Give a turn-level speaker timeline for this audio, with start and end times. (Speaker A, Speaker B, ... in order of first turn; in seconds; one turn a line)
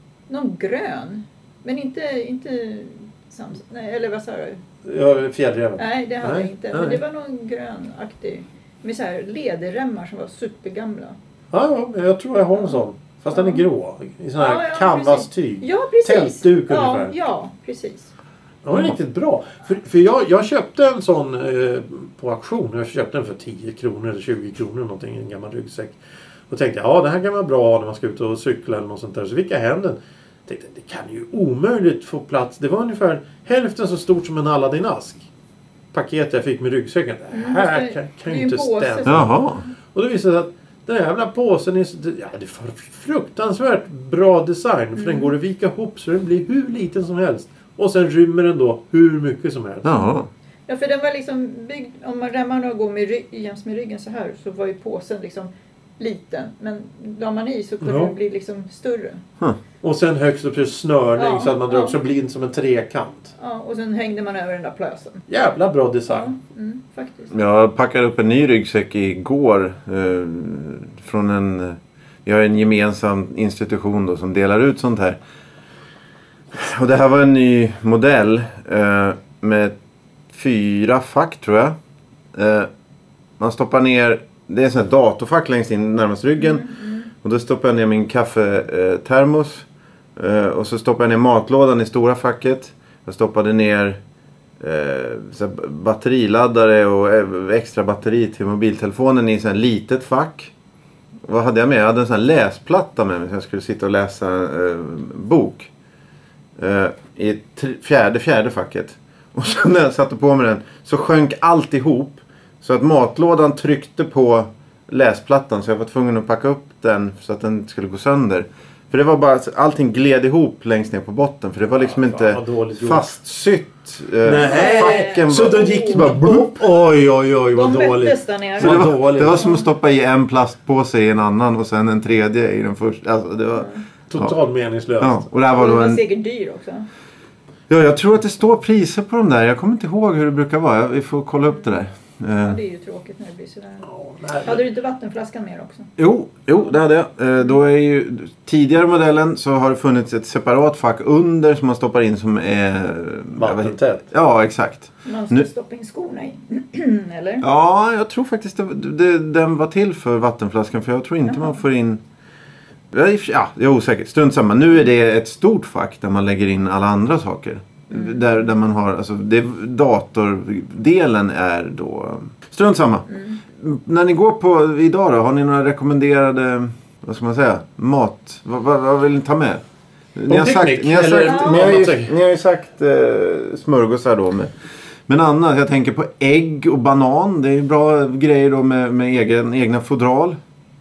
Speaker A: 0.3-4.6
Speaker B: 4.8-7.0
Speaker A: 5.8-11.2
Speaker B: 11.5-17.1
Speaker A: 13.3-13.6
Speaker A: 14.4-18.1
Speaker B: 18.6-26.0
Speaker B: 26.5-35.3
Speaker B: 35.9-39.3
Speaker A: 37.3-39.3
Speaker C: 39.0-39.6
Speaker B: 39.9-50.1
Speaker A: 45.0-45.3
Speaker C: 49.8-50.3
Speaker A: 50.7-59.2
Speaker B: 57.8-58.1
Speaker B: 59.8-63.3
Speaker A: 61.2-62.0
Speaker A: 63.4-65.2
Speaker B: 65.3-66.3
Speaker A: 66.1-67.3
Speaker C: 67.3-75.2
Speaker C: 76.5-79.8
Speaker C: 80.3-81.7
Speaker C: 82.3-82.7
Speaker C: 83.4-86.7
Speaker A: 86.4-87.1
Speaker C: 87.2-89.7
Speaker C: 90.2-94.0
Speaker C: 94.6-100.5
Speaker C: 101.2-105.7
Speaker C: 106.6-126.6
Speaker B: 121.7-123.1
Speaker B: 124.2-129.4
Speaker A: 124.3-126.2
Speaker A: 127.5-129.6
Speaker C: 128.6-134.3
Speaker A: 133.6-133.8
Speaker B: 134.1-135.2
Speaker C: 135.0-136.0
Speaker A: 135.5-136.9
Speaker C: 137.7-142.6
Speaker A: 142.4-143.9
Speaker B: 143.9-144.6
Speaker A: 144.4-145.9
Speaker C: 146.0-155.4
Speaker B: 153.3-154.1
Speaker A: 155.0-157.4
Speaker C: 157.4-162.0
Speaker A: 161.3-161.6
Speaker C: 162.9-179.6
Speaker A: 173.1-173.4
Speaker C: 180.1-184.5
Speaker B: 180.3-182.1
Speaker A: 181.2-181.8
Speaker C: 185.1-190.4